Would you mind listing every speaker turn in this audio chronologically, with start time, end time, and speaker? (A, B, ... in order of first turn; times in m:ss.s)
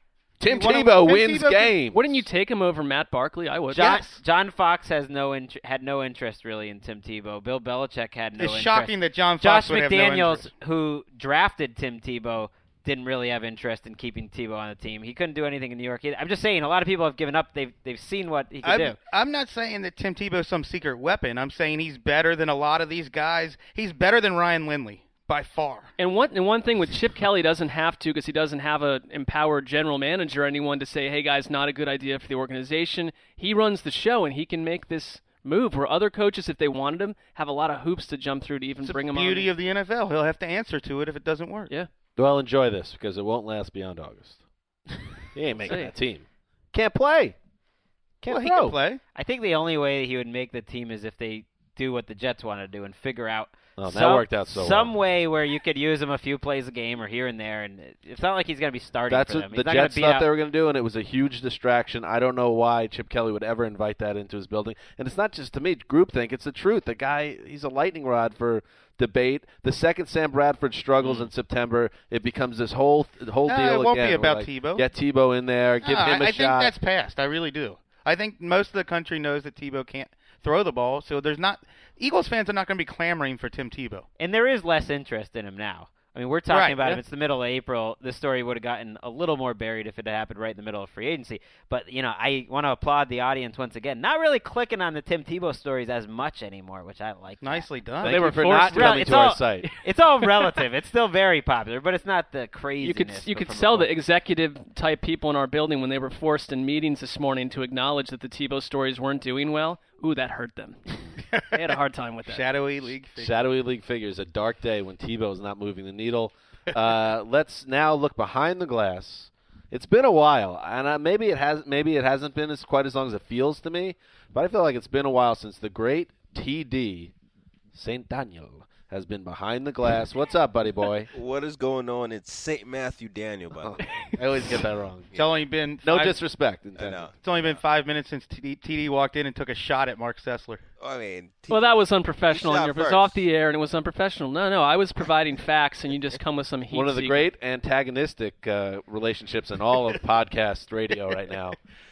0:00.4-0:02.2 A
0:00.4-0:01.7 B
0:01.9-0:04.0 C
0:03.7-0:19.0 D
0:03.8-0:04.2 B
0:08.4-0:10.5 B
0:18.6-0:25.9 B
0:26.0-0:39.5 C
0:38.8-0:41.7 B
0:42.2-0:44.4 A
0:45.3-0:47.4 A
0:45.6-0:45.9 C
0:48.2-0:48.8 A
0:48.3-0:49.0 B
0:49.2-1:00.3 D
0:53.8-0:54.9 A
0:59.1-1:16.7 A
1:11.0-1:11.3 D
1:13.5-1:14.8 B
1:15.8-1:24.1 B
1:24.2-1:37.7 D
1:26.5-1:27.0 B
1:37.4-1:38.2 B
1:38.0-1:39.7 A
1:38.0-1:40.5 C
1:38.7-1:43.9 D
1:42.8-1:52.9 C
1:52.3-1:53.3 B
1:53.2-2:07.1 A
2:07.7-2:11.1 A
2:11.1-2:13.8 E
2:13.5-2:15.1 A
2:15.2-2:16.2 B
2:15.8-2:17.1 A
2:16.8-2:17.6 E
2:17.2-2:20.6 B
2:20.8-2:23.2 E
2:21.5-2:27.3 C
2:26.7-2:31.6 A